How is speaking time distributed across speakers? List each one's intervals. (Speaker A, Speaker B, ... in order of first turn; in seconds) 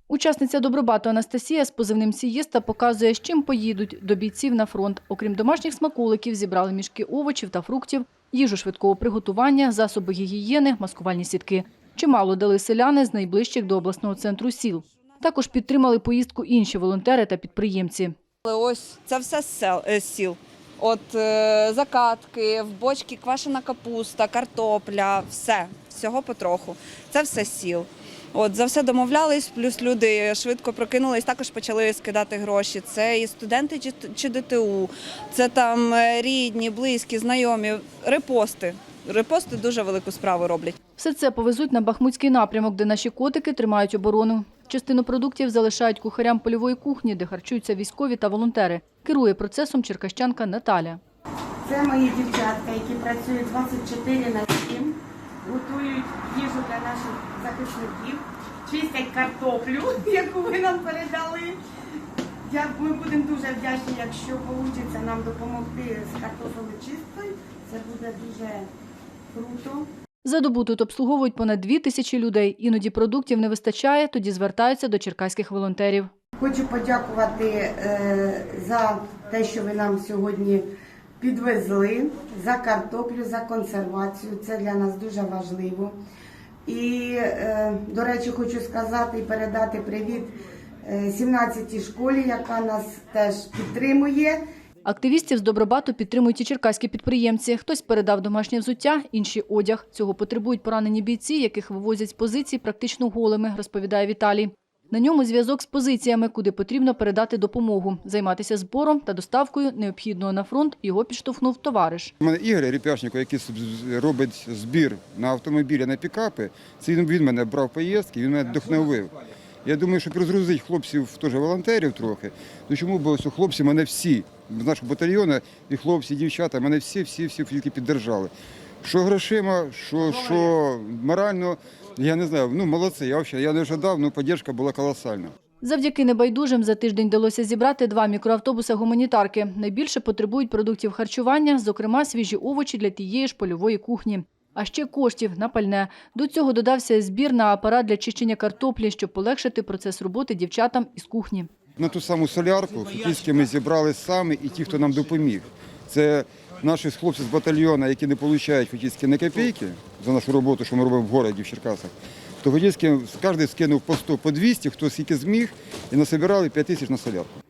Speaker A: 0.1-18.1, 41.0-51.0, 70.2-76.1, 94.8-112.1, 135.6-151.5
Speaker B: 18.4-40.8
Speaker C: 51.6-61.6, 62.5-68.7, 69.3-69.9, 76.4-80.7, 81.2-86.0, 86.7-94.4
Speaker D: 112.2-119.1, 119.7-128.3, 128.8-135.3, 151.8-167.3